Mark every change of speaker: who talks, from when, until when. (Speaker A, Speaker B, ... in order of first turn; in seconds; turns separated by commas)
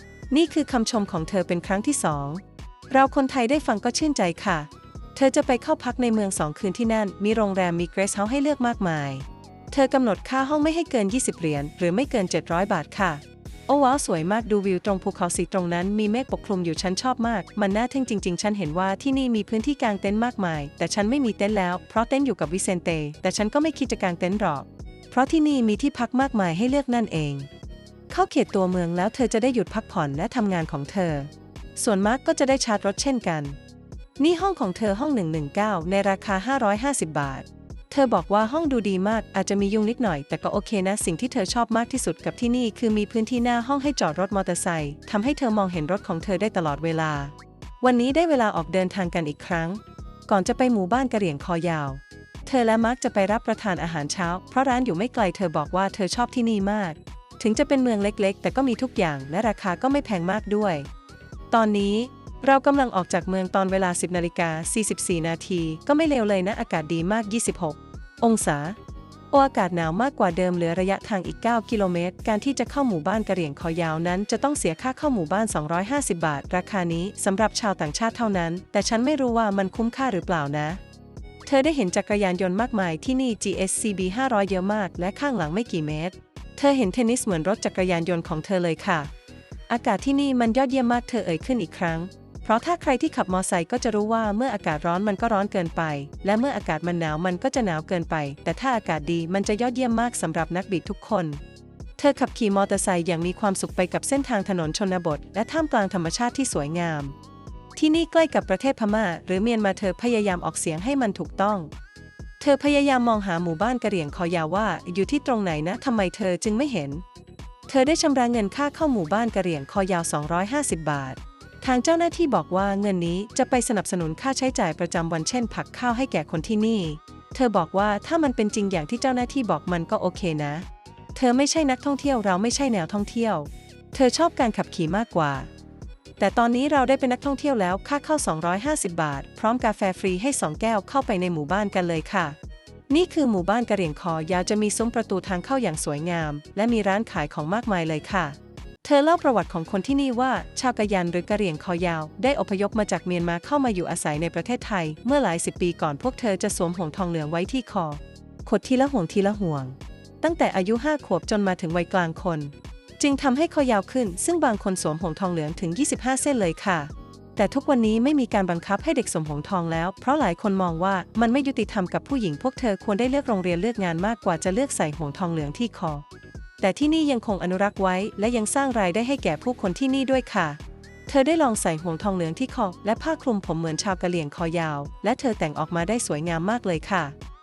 Speaker A: 0.3-27.5, Speaker A: 28.1-33.6, Speaker A: 34.2-60.9, Speaker A: 61.5-68.8, Speaker A: 69.3-80.8, Speaker A: 81.5-89.1, Speaker A: 89.7-101.4, Speaker A: 102.0-107.1, Speaker A: 107.8-111.7, Speaker A: 112.4-117.0, Speaker A: 117.7-135.5, Speaker A: 136.2-142.4, Speaker A: 142.9-176.0, Speaker A: 176.6-187.1